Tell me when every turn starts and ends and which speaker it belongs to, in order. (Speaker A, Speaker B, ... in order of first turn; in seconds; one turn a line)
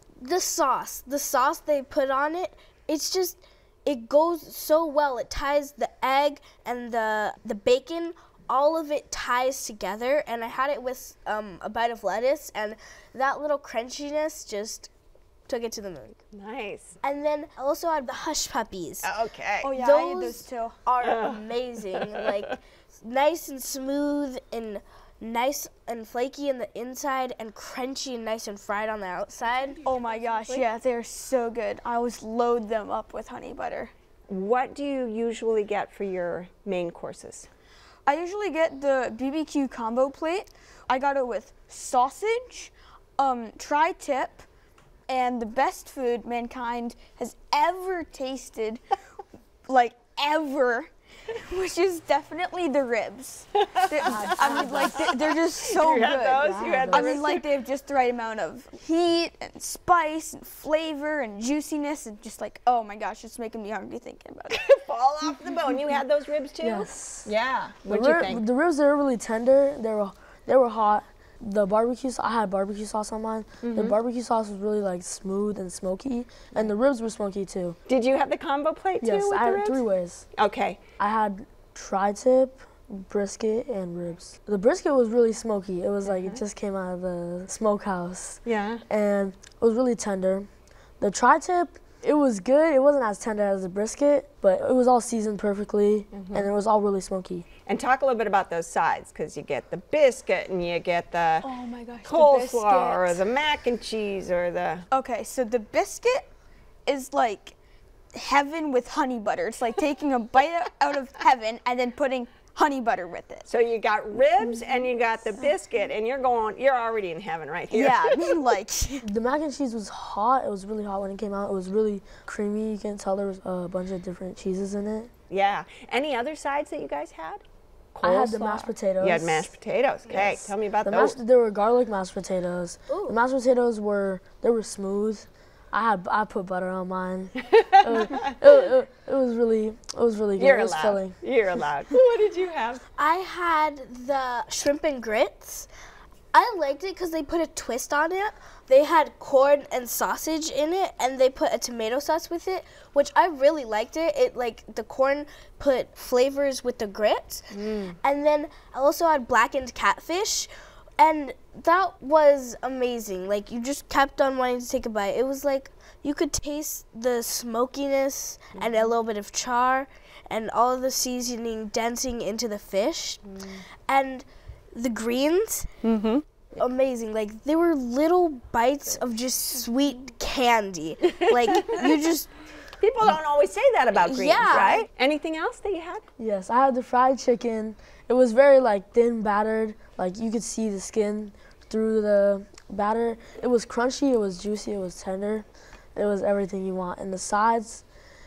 Speaker A: 0.2-14.9
Speaker A: 15.5-16.2
Speaker B: 16.3-17.0
Speaker A: 17.0-19.1
Speaker B: 19.0-19.7
Speaker C: 19.6-20.8
Speaker A: 19.7-29.8
Speaker B: 21.0-22.3
Speaker C: 29.8-33.9
Speaker B: 34.3-37.5
Speaker C: 38.0-44.5
Speaker C: 45.1-48.8
Speaker C: 49.6-64.8
Speaker D: 54.0-55.0
Speaker B: 54.4-55.1
Speaker B: 55.7-57.4
Speaker D: 56.5-57.2
Speaker B: 64.6-68.4
Speaker D: 66.6-67.3
Speaker D: 67.8-77.8
Speaker B: 73.6-74.0
Speaker B: 77.9-79.8
Speaker D: 79.0-80.3
Speaker B: 80.3-80.8
Speaker D: 81.0-90.5
Speaker B: 86.0-86.4
Speaker B: 88.4-88.8
Speaker D: 91.0-97.5
Speaker B: 96.1-96.5
Speaker B: 97.7-101.5
Speaker C: 101.4-103.2
Speaker B: 102.0-104.8
Speaker C: 104.9-106.3
Speaker C: 106.8-107.5
Speaker C: 108.1-113.5
Speaker B: 113.5-118.3
Speaker C: 117.7-119.1
Speaker D: 119.0-125.1
Speaker B: 125.3-131.2
Speaker D: 128.0-129.5
Speaker D: 130.1-141.2
Speaker A: 132.9-133.1
Speaker B: 137.4-138.7
Speaker B: 140.3-142.8
Speaker A: 143.0-145.7
Speaker A: 146.3-173.2
Speaker A: 173.9-175.7
Speaker A: 176.6-182.3
Speaker B: 182.8-186.0
Speaker A: 183.9-184.9
Speaker D: 186.2-197.8